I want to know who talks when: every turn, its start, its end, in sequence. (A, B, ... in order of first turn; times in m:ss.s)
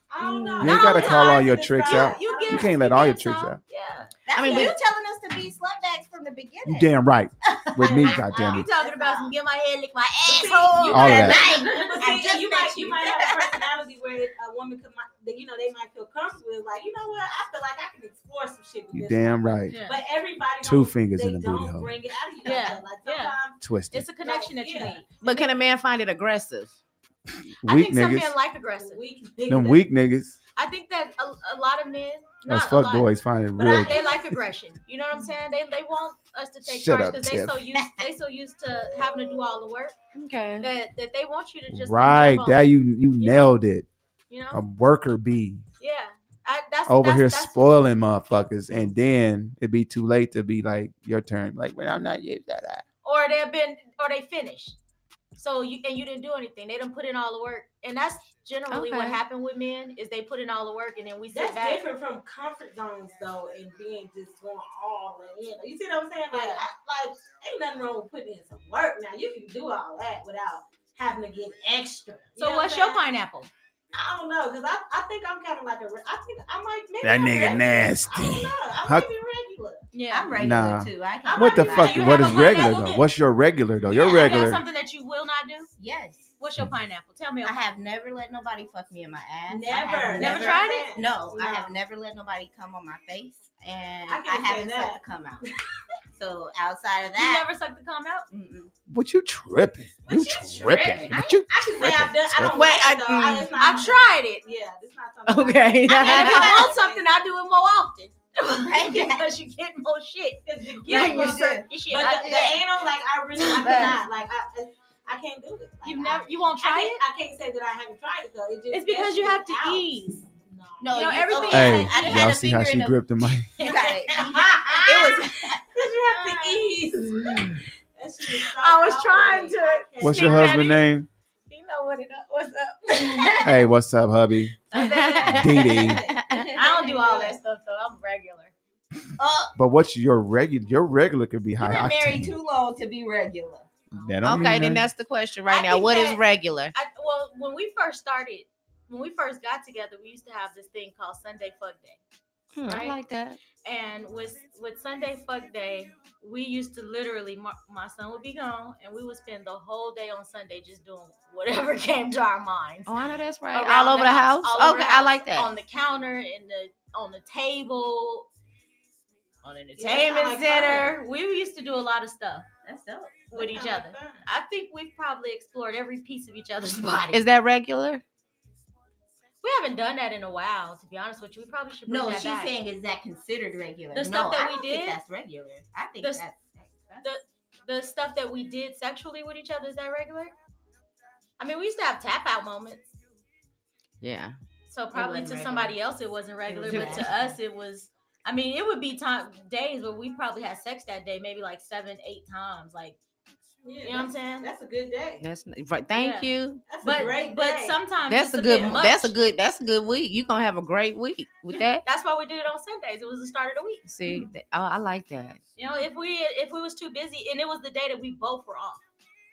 0:00.1-0:02.8 A
0:00.2-0:01.0 B
0:00.6-0:03.6 C
0:00.6-0:04.8 D
0:04.3-0:06.9 E
0:04.3-0:04.8 B
0:06.6-0:08.7 C
0:07.6-0:09.3 E
0:07.8-0:08.6 A
0:08.3-0:12.1 D
0:10.2-0:13.6 E
0:10.3-0:23.6 A
0:10.9-0:11.4 C
0:18.9-0:19.8 C
0:19.7-0:20.0 D
0:20.6-0:21.9 C
0:22.4-0:23.4 D
0:23.6-0:24.1 C
0:23.9-0:25.5 D
0:24.2-0:25.0 A
0:25.2-0:26.8 B
0:27.5-0:28.4 C
0:27.6-0:29.0 D
0:28.8-0:29.8 A
0:29.5-0:30.4 C
0:30.6-0:40.0 D
0:32.5-0:34.2 C
0:33.6-0:34.3 A
0:36.6-0:37.6 C
0:40.2-0:40.7 B
0:40.6-0:43.5 D
0:41.7-0:43.9 C
0:44.3-0:44.6 D
0:44.5-0:45.6 C
0:45.8-0:47.7 D
0:46.9-0:52.8 C
0:53.0-0:54.8 D
0:55.4-1:01.8 D
0:58.7-0:59.2 B
1:01.3-1:13.0 A
1:06.3-1:06.6 D
1:12.4-1:13.5 D
1:13.9-1:19.8 A
1:17.0-1:19.1 C
1:19.9-1:20.4 D
1:20.1-1:22.3 E
1:20.4-1:24.6 C
1:21.2-1:22.6 A
1:21.4-1:23.1 D
1:23.9-1:25.7 D
1:25.8-1:26.3 E
1:26.4-1:27.6 D
1:27.4-1:35.4 E
1:29.5-1:31.8 A
1:30.2-1:30.9 D
1:34.1-1:35.0 A
1:36.1-1:37.5 E
1:37.2-1:38.3 D
1:38.3-1:38.7 E
1:38.9-1:42.6 C
1:40.1-1:47.0 A
1:41.0-1:41.9 E
1:42.5-1:43.6 B
1:43.6-1:44.4 D
1:45.3-1:46.7 B
1:45.9-1:52.6 D
1:48.6-1:49.3 E
1:50.6-2:01.8 A
1:50.9-1:52.6 E
1:53.4-1:54.0 D
1:53.6-1:54.0 E
1:55.8-1:57.0 D
1:58.7-2:00.2 D
2:00.8-2:03.0 E
2:00.9-2:02.5 D
2:01.5-2:03.5 C
2:03.5-2:05.6 E
2:03.6-2:03.9 D
2:03.6-2:10.7 A
2:06.2-2:06.6 D
2:08.4-2:10.9 D
2:10.0-2:11.1 C
2:11.5-2:13.7 D
2:13.4-2:14.6 C
2:14.7-2:15.9 D
2:14.7-2:16.5 B
2:15.2-2:16.0 C
2:15.3-2:16.6 E
2:15.3-2:17.4 A
2:16.5-2:18.5 D
2:19.2-2:19.5 E
2:19.6-2:22.4 C
2:21.6-2:23.7 E
2:23.9-2:24.9 C
2:24.2-2:26.7 B
2:25.5-2:26.2 D
2:26.7-2:32.0 D
2:32.6-2:33.4 B
2:32.7-2:33.0 D
2:33.6-2:43.0 D
2:42.9-2:45.5 B
2:43.5-2:48.3 D
2:49.4-2:52.5 D
2:49.8-2:51.0 A
2:52.6-2:53.2 E
2:53.3-2:54.2 A
2:53.3-2:57.3 D
2:57.1-2:58.0 B
2:59.4-3:02.5 D
3:01.9-3:07.0 E
3:03.9-3:05.0 D
3:07.0-3:10.3 D
3:11.4-3:12.9 D
3:14.0-3:14.4 B
3:14.7-3:23.0 D
3:14.9-3:15.8 E
3:16.5-3:17.1 B
3:16.5-3:17.4 E
3:23.6-3:25.2 A
3:23.8-3:24.5 D
3:25.2-3:26.7 B
3:26.0-3:29.2 D
3:26.7-3:27.8 A
3:28.1-3:31.8 B
3:31.5-3:34.3 D
3:33.9-3:35.4 B
3:35.6-3:38.8 D